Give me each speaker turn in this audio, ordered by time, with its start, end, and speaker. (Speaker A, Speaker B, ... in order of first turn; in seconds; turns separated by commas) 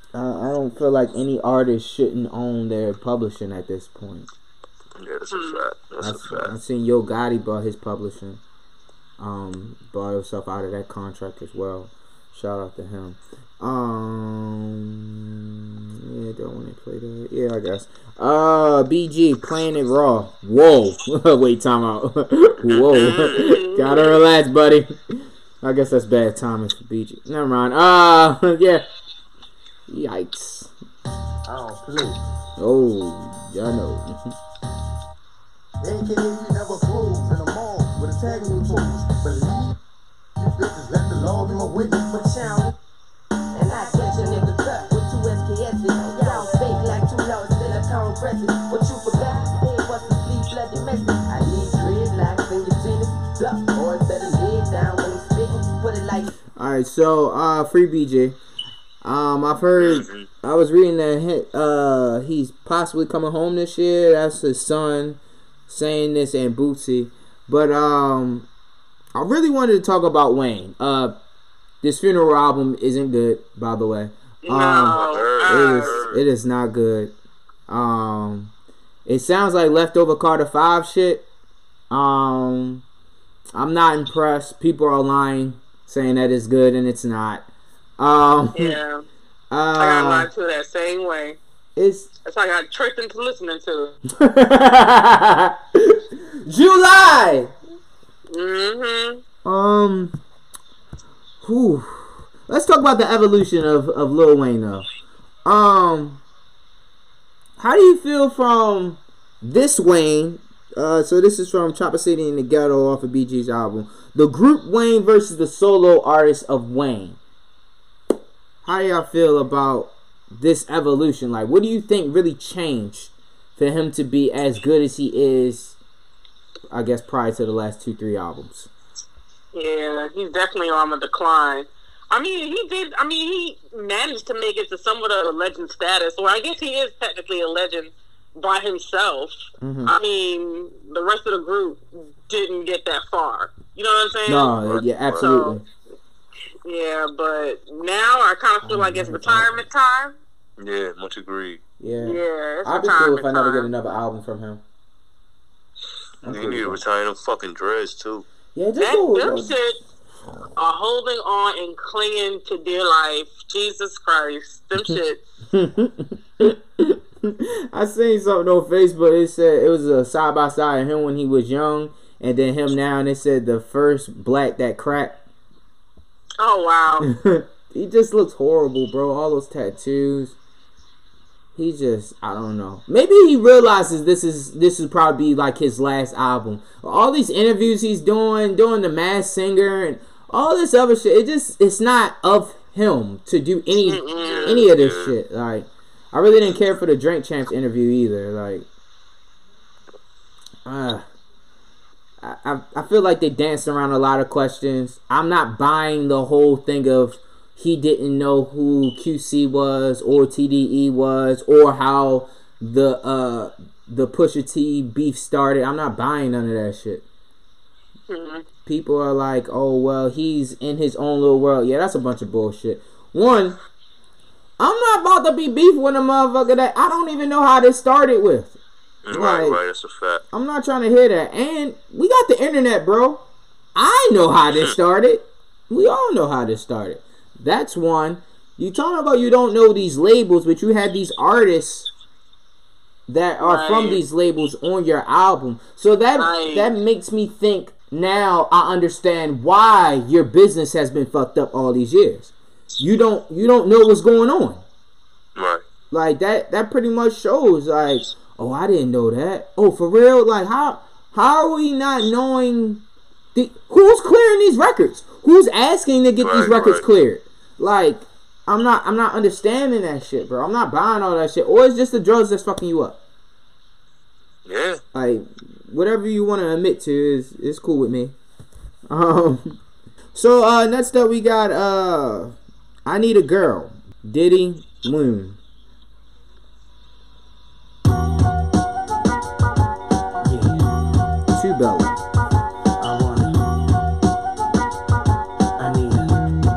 Speaker A: 0.1-4.3, Speaker B: 5.0-6.5, Speaker C: 5.3-5.6, Speaker A: 6.0-8.4, Speaker A: 9.2-15.2, Speaker A: 16.0-28.8, Speaker B: 22.6-23.5, Speaker C: 23.2-24.2, Speaker A: 29.9-30.7, Speaker D: 31.5-32.1, Speaker A: 32.6-34.3, Speaker D: 35.8-39.7, Speaker D: 40.6-42.2, Speaker E: 41.3-42.7, Speaker E: 43.5-56.3, Speaker A: 56.5-58.4, Speaker A: 59.0-68.5, Speaker B: 59.8-60.3, Speaker A: 69.2-71.2, Speaker A: 71.8-77.1, Speaker C: 74.4-76.0, Speaker B: 74.9-76.2, Speaker A: 77.7-78.5, Speaker A: 79.0-81.2, Speaker A: 81.9-82.8, Speaker A: 83.5-87.5, Speaker A: 88.0-88.8, Speaker C: 88.5-89.0, Speaker A: 89.5-90.3, Speaker C: 89.8-91.4, Speaker A: 91.8-92.1, Speaker C: 92.2-93.9, Speaker A: 94.2-97.5, Speaker C: 98.3-99.2, Speaker A: 99.4-100.1, Speaker A: 101.4-104.8, Speaker A: 105.4-106.2, Speaker A: 107.6-117.2, Speaker A: 118.6-125.8, Speaker A: 126.7-128.7, Speaker C: 129.5-144.6, Speaker A: 139.6-139.9, Speaker A: 144.3-145.6, Speaker B: 144.6-145.3, Speaker C: 145.2-145.6, Speaker C: 146.6-150.2, Speaker A: 148.6-149.6, Speaker B: 150.6-151.6, Speaker A: 151.8-154.6, Speaker C: 152.0-153.7, Speaker A: 156.2-156.8, Speaker B: 156.2-158.2, Speaker A: 158.5-159.5, Speaker C: 158.8-159.8, Speaker C: 160.6-165.2, Speaker A: 165.5-175.2, Speaker C: 176.4-177.1, Speaker A: 177.0-180.3, Speaker A: 181.6-198.7, Speaker C: 193.8-194.7, Speaker B: 194.1-195.2, Speaker A: 200.7-201.1, Speaker A: 202.2-217.0, Speaker C: 218.1-218.4, Speaker A: 218.7-223.6, Speaker A: 224.6-228.6, Speaker B: 229.0-230.2, Speaker A: 229.1-229.6, Speaker A: 230.3-233.2, Speaker A: 233.8-241.9, Speaker A: 243.1-254.6, Speaker C: 243.4-244.0, Speaker C: 246.2-246.7, Speaker B: 255.3-255.6, Speaker A: 255.9-262.8, Speaker A: 263.3-273.0, Speaker B: 266.2-266.9, Speaker B: 274.4-274.8, Speaker A: 274.9-278.1, Speaker A: 278.9-279.6, Speaker A: 280.1-282.3, Speaker A: 282.9-285.4, Speaker E: 290.3-290.5, Speaker A: 291.3-292.0, Speaker E: 292.8-293.3, Speaker E: 295.6-296.0